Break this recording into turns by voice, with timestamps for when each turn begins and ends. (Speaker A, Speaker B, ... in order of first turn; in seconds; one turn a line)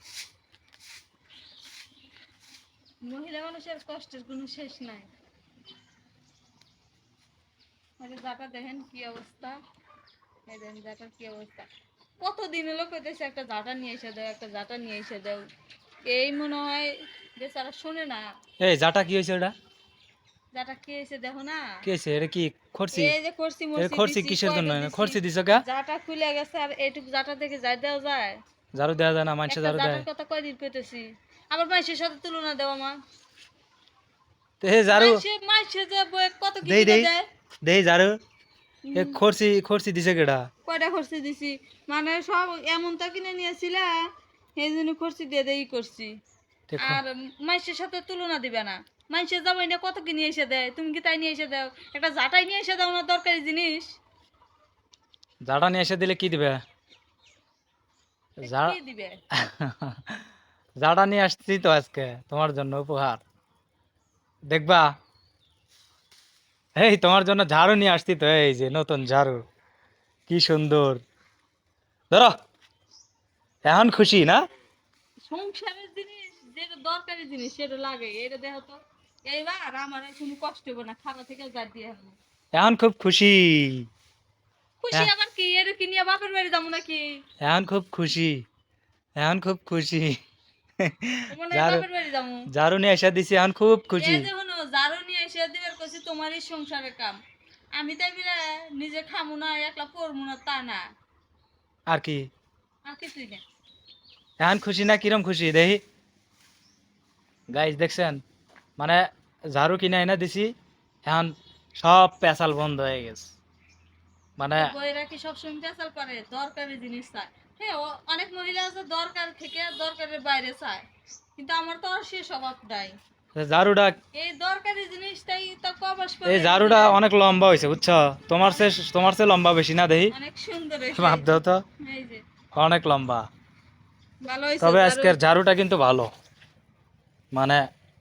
Speaker A: 3.0-5.1
Speaker A: 8.0-9.6
Speaker A: 10.5-11.7
Speaker A: 12.2-15.4
Speaker A: 16.1-18.2
Speaker B: 18.6-19.5
Speaker A: 20.5-21.8
Speaker B: 21.8-23.1
Speaker A: 22.9-28.4
Speaker B: 23.8-25.6
Speaker B: 28.7-30.1
Speaker A: 29.5-33.0
Speaker B: 34.6-35.2
Speaker A: 34.9-37.2
Speaker B: 36.6-37.1
Speaker B: 37.6-38.2
Speaker A: 38.9-39.2
Speaker B: 38.9-40.5
Speaker A: 40.6-44.0
Speaker A: 44.6-46.1
Speaker B: 46.7-47.0
Speaker A: 46.8-54.0
Speaker B: 55.4-56.6
Speaker B: 58.4-58.8
Speaker A: 58.4-59.1
Speaker B: 59.3-60.2
Speaker B: 60.8-63.2
Speaker B: 64.5-64.9
Speaker B: 66.8-69.4
Speaker B: 70.3-71.0
Speaker B: 73.6-74.4
Speaker A: 75.3-82.2
Speaker B: 82.5-83.9
Speaker A: 84.8-87.2
Speaker B: 87.4-88.5
Speaker B: 89.2-90.2
Speaker B: 90.8-91.8
Speaker A: 91.3-92.5
Speaker B: 92.5-94.3
Speaker A: 94.0-97.2
Speaker A: 97.7-100.8
Speaker B: 101.9-102.2
Speaker A: 102.8-103.4
Speaker B: 104.4-105.8
Speaker B: 107.5-108.2
Speaker B: 108.8-113.3
Speaker B: 114.4-114.7
Speaker A: 114.5-120.8
Speaker A: 121.3-123.0
Speaker B: 123.3-124.0
Speaker A: 124.1-127.0
Speaker B: 126.2-130.1
Speaker A: 130.1-132.2
Speaker B: 131.0-131.6
Speaker B: 132.5-133.2
Speaker A: 134.2-135.2
Speaker B: 134.6-136.1
Speaker B: 137.3-137.6